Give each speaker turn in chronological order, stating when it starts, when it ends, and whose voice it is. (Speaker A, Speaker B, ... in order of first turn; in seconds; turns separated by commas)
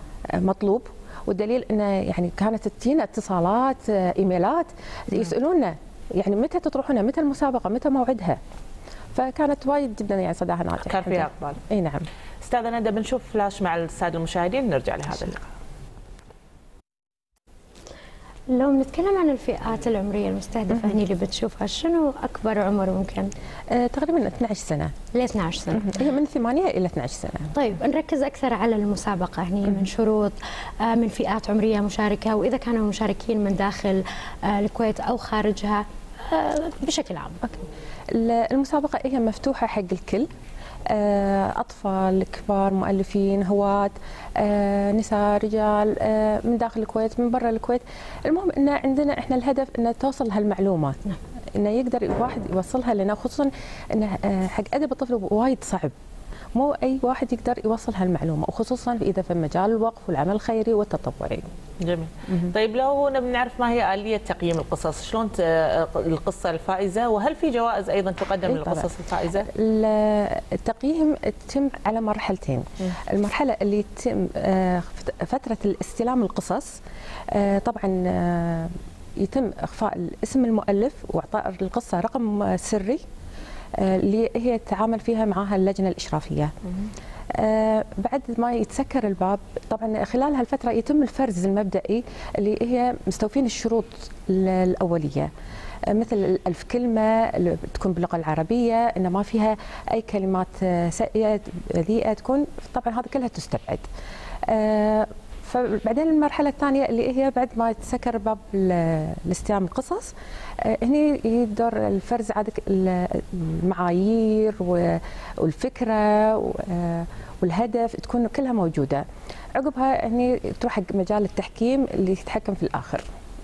Speaker A: 0.3-8.4, Speaker A: 9.1-12.1, Speaker B: 10.8-11.6, Speaker B: 12.4-15.4, Speaker C: 18.5-23.3, Speaker A: 23.7-24.9, Speaker C: 25.1-26.0, Speaker A: 25.7-27.5, Speaker C: 27.6-37.5, Speaker A: 38.1-40.3, Speaker A: 40.9-51.0, Speaker A: 51.5-55.9, Speaker A: 56.5-61.5, Speaker B: 61.8-69.5, Speaker A: 62.3-62.5, Speaker A: 68.5-68.9, Speaker A: 69.4-76.8, Speaker A: 77.3-83.0, Speaker A: 83.8-86.5, Speaker A: 87.3-95.3, Speaker A: 95.9-103.9, Speaker A: 104.5-110.1, Speaker A: 110.6-119.0, Speaker A: 119.6-123.0